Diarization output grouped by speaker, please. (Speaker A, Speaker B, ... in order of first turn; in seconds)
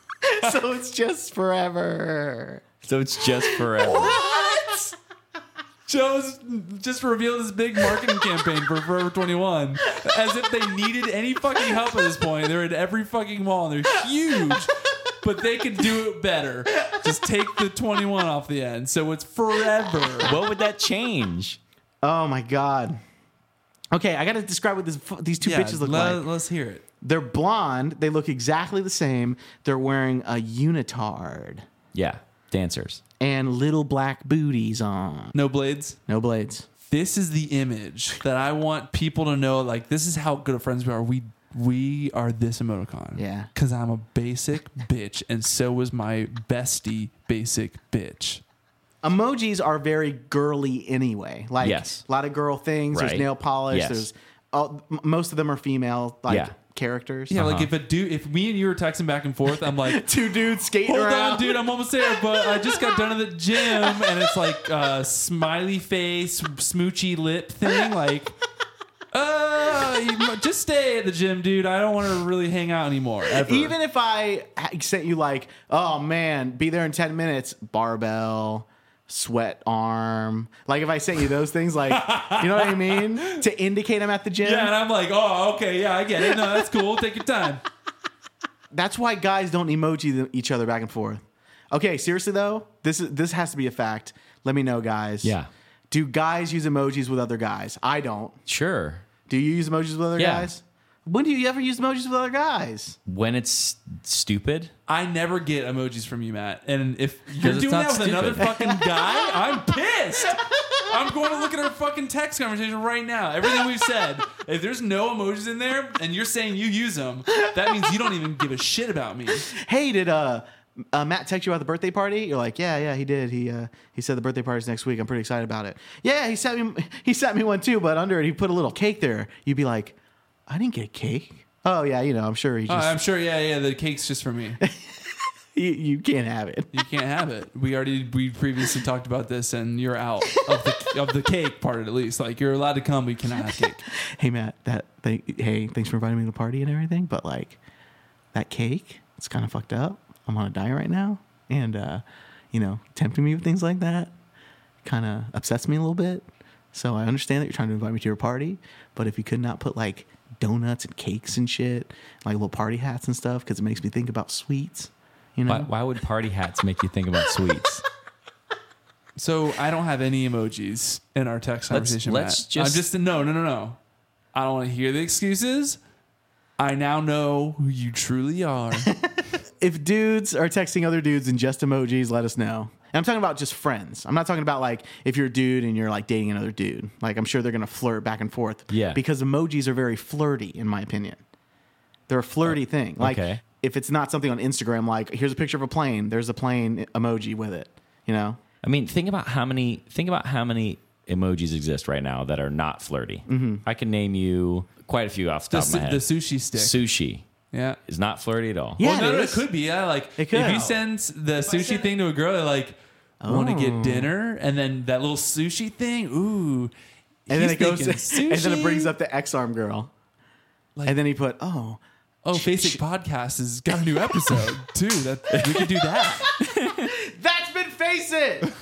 Speaker A: 0.2-2.6, 3.4-4.6, 22.0-23.0, 23.9-26.2, 27.0-31.6, 33.2-35.4, 36.1-36.7, 43.2-43.5, 49.0-57.4, 59.6-61.7, 62.4-64.3, 73.3-84.8, 88.7-95.4, 95.9-98.4, 99.3-103.0, 108.4-109.6, 119.5-130.0, 130.5-133.0, 134.6-136.7, 143.4-143.6, 144.2-147.6, 148.3-154.1, 154.8-165.7, 178.8-191.2, 192.1-198.4, 203.3-203.6, 208.8-209.5, 210.2-210.8, 213.2-214.1, 217.3-219.9, 220.9-221.8, 222.3-222.8, 226.8-228.5
Speaker B: 2.8-4.2, 20.2-21.6, 31.9-33.0, 51.6-52.0, 52.9-54.1, 56.3-56.5, 57.3-57.7, 95.2-95.5, 98.5-99.0, 100.2-100.5, 103.1-104.7, 107.4-108.5, 165.5-167.8, 171.7-172.8, 188.7-189.0, 192.4-193.4, 198.6-207.2, 207.9-208.8, 211.5-211.8, 225.3-225.8, 226.4-226.9
Speaker C: 3.8-4.9, 5.9-20.4, 25.4-26.8, 35.3-36.0, 36.9-48.4, 57.3-60.2, 60.8-68.3, 69.1-73.8, 81.9-83.4, 84.4-87.6, 104.9-119.5, 132.7-134.6, 136.7-143.8, 169.2-173.8, 174.3-175.8, 176.6-178.9, 205.5-206.9, 207.5-207.8, 208.8-216.7, 217.3-218.9, 222.2-226.3